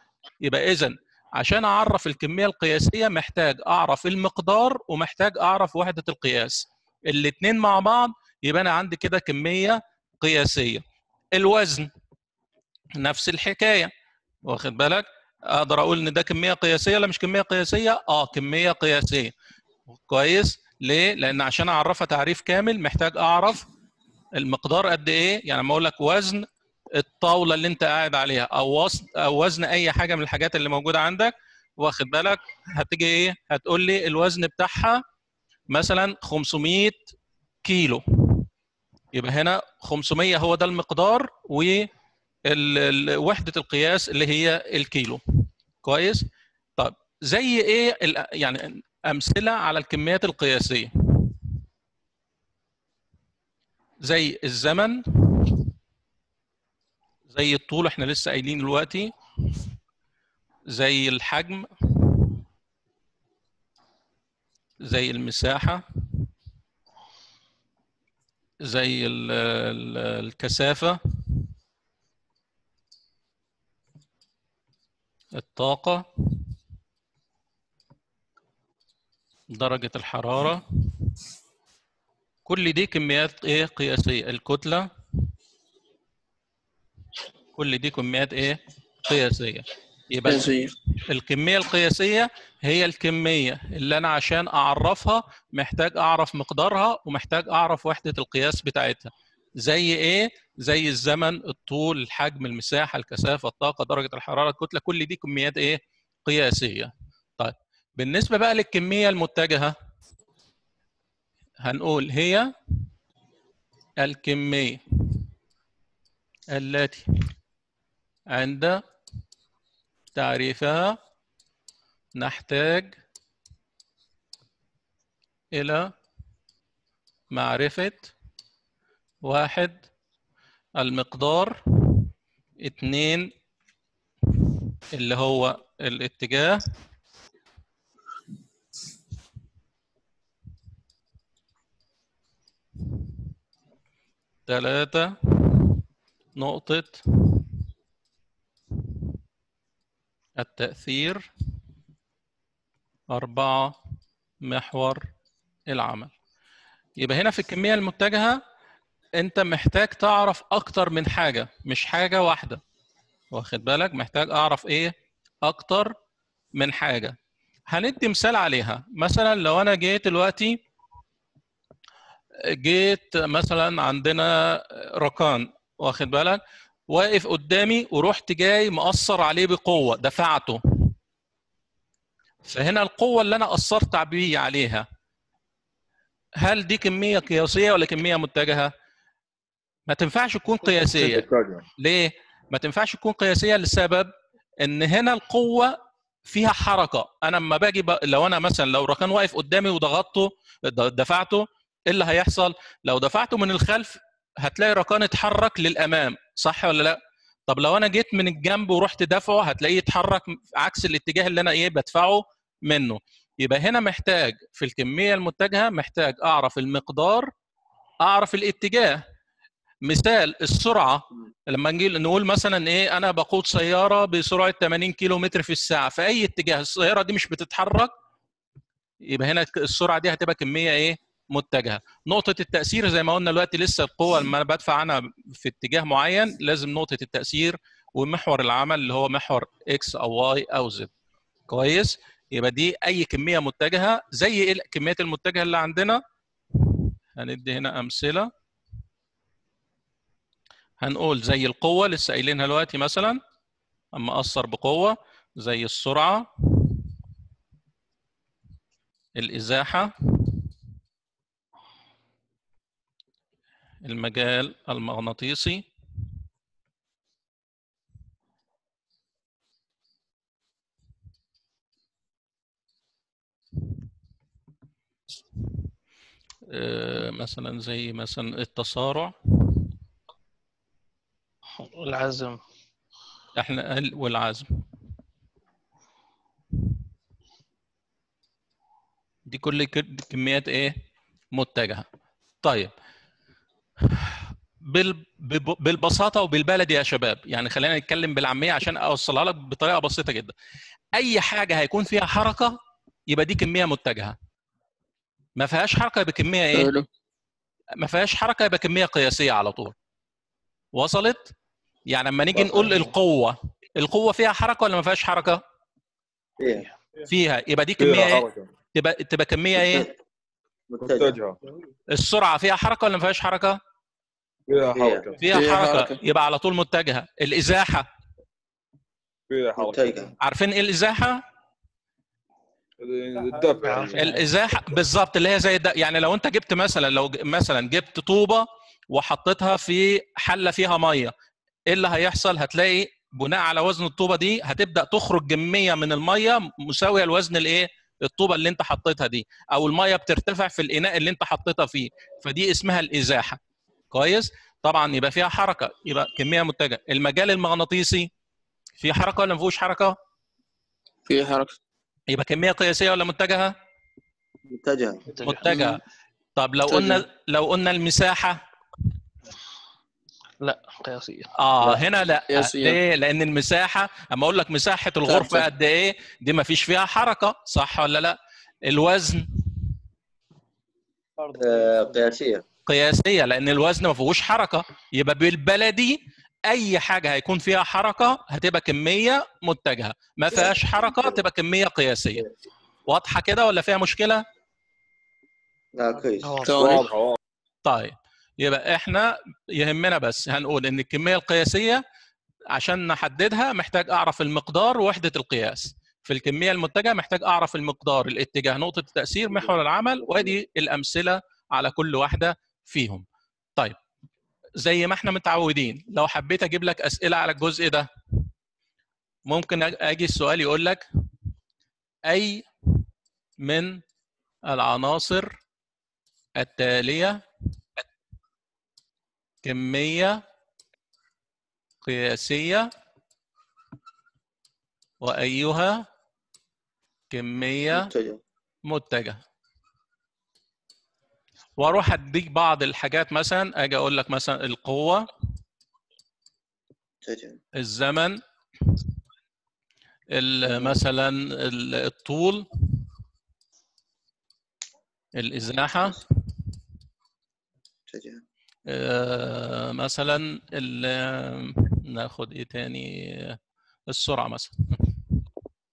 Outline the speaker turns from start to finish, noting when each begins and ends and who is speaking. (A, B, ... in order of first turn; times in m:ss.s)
0:00.4-0:10.8 A
0:11.3-0:11.9 A
0:13.0-0:13.9 A
0:14.4-0:19.3 A
0:20.0-0:23.7 A
0:24.4-0:26.4 A
0:27.0-0:35.0 A
0:35.7-0:37.0 A
0:37.6-0:38.5 A
0:39.1-0:41.9 A
0:42.5-0:45.2 A
0:45.8-0:46.2 A
0:46.8-0:51.4 A
0:54.0-0:55.6 A
0:57.3-0:59.1 A
1:00.7-1:02.4 A
1:04.8-1:05.8 A
1:08.6-1:11.0 A
1:15.4-1:16.4 A
1:19.5-1:21.2 A
1:22.5-1:24.9 A
1:27.6-1:49.7 A
1:30.2-1:30.7 B
1:51.6-1:52.5 A
1:54.0-1:55.2 A
1:56.5-1:57.0 A
1:58.3-1:58.8 A
2:00.2-2:01.0 A
2:02.2-2:02.9 A
2:05.5-2:05.9 A
2:07.3-2:08.1 A
2:09.2-2:09.8 A
2:10.8-2:12.0 A
2:12.6-2:13.3 A
2:14.9-2:16.6 A
2:24.5-2:25.8 A
2:26.4-2:27.5 A
2:30.4-2:31.3 A
2:33.1-2:33.7 A
2:34.4-2:35.0 A
2:35.7-2:36.1 A
2:37.0-2:38.4 A
2:39.2-2:42.6 A
2:43.3-2:44.9 A
2:45.4-2:45.9 A
2:46.6-2:47.2 A
2:47.7-2:50.6 A
2:52.5-3:00.9 A
3:02.5-3:04.8 A
3:06.4-3:08.7 A
3:09.9-3:11.2 A
3:10.7-3:11.6 C
3:11.8-3:14.1 A
3:14.6-3:15.7 A
3:16.3-3:37.3 A
3:38.0-3:39.0 A
3:39.8-3:47.9 A
3:49.0-4:00.9 A
4:01.5-4:06.0 A
4:06.6-4:08.3 A
4:10.8-4:13.2 A
4:13.9-4:16.8 A
4:19.2-4:20.4 A
4:23.8-4:25.6 A
4:36.5-4:39.6 A
4:41.6-4:42.4 D
4:43.4-4:44.5 A
4:49.3-4:50.8 A
4:51.3-4:51.8 A
4:52.4-4:52.7 A
4:53.9-5:00.3 A
5:01.0-5:02.5 A
5:03.1-5:04.2 A
5:05.4-5:06.7 A
5:06.5-5:06.9 B
5:07.8-5:09.8 A
5:10.8-5:11.3 A
5:11.9-5:15.4 A
5:12.4-5:12.8 E
5:16.4-5:16.7 E
5:17.1-5:19.9 A
5:17.8-5:18.5 C
5:19.6-5:19.9 E
5:20.7-5:21.2 E
5:20.8-5:21.4 C
5:21.9-5:23.6 A
5:24.5-5:25.2 C
5:24.7-5:25.1 E
5:25.2-5:27.9 A
5:25.3-5:26.0 B
5:29.3-5:30.0 C
5:29.6-5:30.1 E
5:30.2-5:31.2 A
5:32.8-5:34.1 C
5:33.4-5:34.3 D
5:34.0-5:41.1 A
5:41.7-5:53.4 A
5:53.9-5:58.1 A
5:58.8-5:59.9 A
6:01.1-6:01.5 B
6:02.1-6:03.5 A
6:04.5-6:05.0 E
6:05.1-6:05.8 D
6:05.2-6:05.8 A
6:06.4-6:08.4 A
6:06.7-6:07.0 B
6:10.4-6:11.3 D
6:11.4-6:19.2 A
6:11.6-6:12.8 B
6:15.1-6:15.5 B
6:21.4-6:22.4 E
6:22.7-6:32.2 A
6:30.3-6:31.2 E
6:32.9-6:34.2 A
6:35.8-6:36.4 E
6:36.2-6:36.8 D
6:36.5-6:36.8 B
6:36.6-6:37.2 C
6:37.6-6:41.8 A
6:42.5-6:53.0 A
6:54.6-6:57.9 A
6:59.3-7:00.8 A
7:02.1-7:02.4 A
7:03.4-7:03.8 A
7:04.5-7:05.3 A
7:06.4-7:07.2 A
7:09.4-7:10.2 A
7:11.8-7:12.7 A
7:15.0-7:15.8 A
7:17.1-7:17.9 A
7:17.7-7:18.2 E
7:18.7-7:19.2 A
7:21.6-7:25.1 A
7:27.0-7:27.4 E
7:27.6-7:28.8 A
7:30.1-7:32.5 A
7:30.4-7:30.8 E
7:35.2-7:36.0 A
7:37.9-7:38.2 E
7:38.7-7:45.0 A